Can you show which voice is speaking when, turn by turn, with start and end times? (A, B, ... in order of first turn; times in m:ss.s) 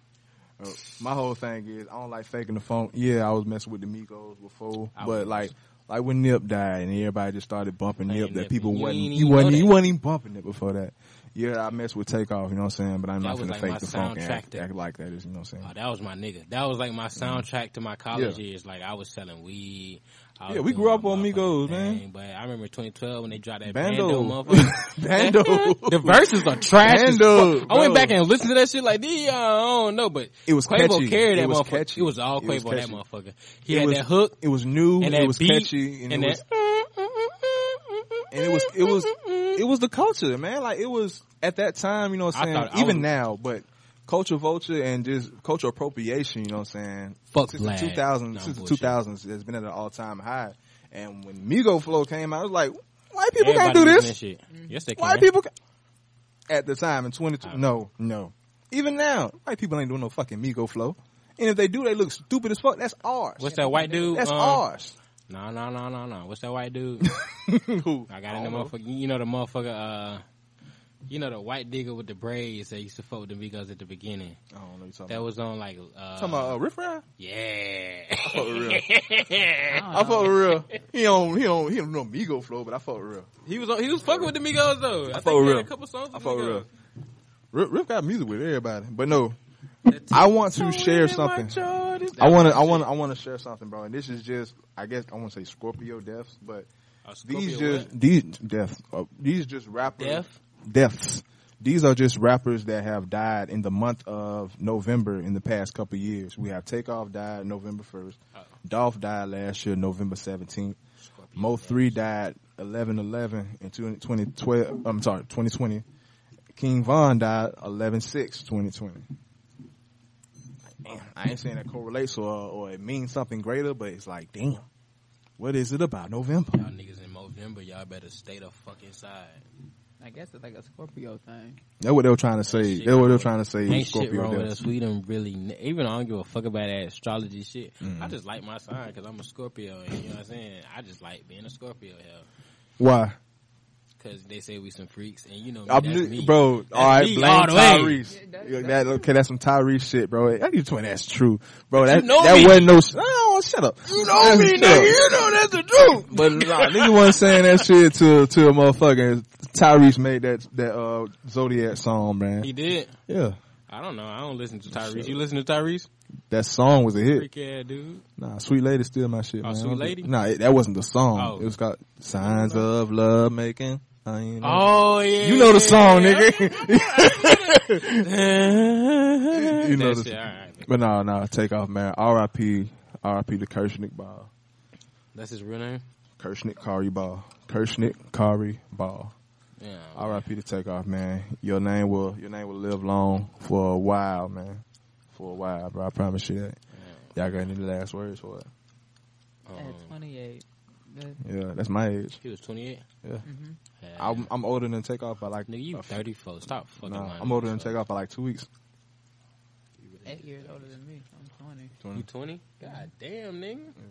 0:00.6-0:15.7 A
0:05.0-0:05.5 B
0:08.1-0:09.8 B
0:13.2-0:14.7 B
0:15.6-0:34.4 B
0:17.2-0:17.4 A
0:18.1-0:18.4 A
0:20.5-0:22.0 A
0:23.6-0:28.2 A
0:30.4-0:33.0 A
0:33.7-0:36.4 A
0:35.0-0:39.6 B
0:38.3-0:54.1 A
0:42.3-0:43.1 B
0:47.3-0:49.0 B
0:53.4-0:55.3 B
0:54.5-0:54.8 C
0:55.0-0:55.5 A
0:56.5-1:03.6 A
1:03.4-1:04.6 B
1:03.4-1:04.2 C
1:04.1-1:05.0 A
1:05.3-1:07.1 B
1:07.0-1:08.7 A
1:08.1-1:10.2 B
1:11.1-1:14.4 B
1:14.5-1:15.3 A
1:15.1-1:16.6 B
1:16.2-1:17.0 A
1:17.2-1:20.6 B
1:18.2-1:18.9 A
1:19.6-1:20.4 C
1:19.9-1:23.3 A
1:23.4-1:26.7 B
1:24.0-1:24.3 A
1:25.1-1:26.6 A
1:27.5-1:36.7 A
1:29.9-1:32.9 B
1:37.0-1:37.9 B
1:37.2-1:50.8 A
1:39.8-1:40.4 B
1:51.0-1:52.0 B
1:51.4-1:55.8 A
1:56.5-1:59.0 A
2:00.8-2:04.6 A
2:05.4-2:06.7 A
2:06.5-2:09.4 B
2:10.0-2:11.6 C
2:11.8-2:14.6 A
2:12.4-2:22.2 B
2:17.8-2:18.2 A
2:22.8-2:23.2 A
2:24.0-2:28.0 B
2:25.7-2:42.5 A
2:28.0-2:29.1 C
2:31.8-2:32.8 B
2:33.9-2:37.7 B
2:42.4-2:43.0 B
2:43.1-2:43.4 A
2:43.7-2:45.9 B
2:44.7-2:45.2 A
2:46.3-2:47.3 A
2:47.1-2:48.0 B
2:48.2-2:58.1 A
2:49.4-2:50.1 B
2:51.1-2:51.6 B
2:52.2-2:52.6 B
2:54.4-3:00.7 B
2:59.3-3:04.3 A
3:05.1-3:05.8 B
3:06.2-3:09.1 A
3:09.6-3:10.3 B
3:10.0-3:16.6 A
3:16.8-3:17.4 B
3:17.2-3:18.5 A
3:19.5-3:19.9 B
3:19.5-3:21.2 C
3:21.2-3:22.2 A
3:22.2-3:22.8 B
3:23.2-3:23.6 C
3:23.8-3:24.3 B
3:24.0-3:26.0 A
3:25.5-3:27.8 B
3:26.8-3:28.5 A
3:29.8-3:30.7 B
3:30.0-3:31.7 C
3:31.8-3:32.0 A
3:31.9-3:33.8 B
3:32.6-3:32.9 C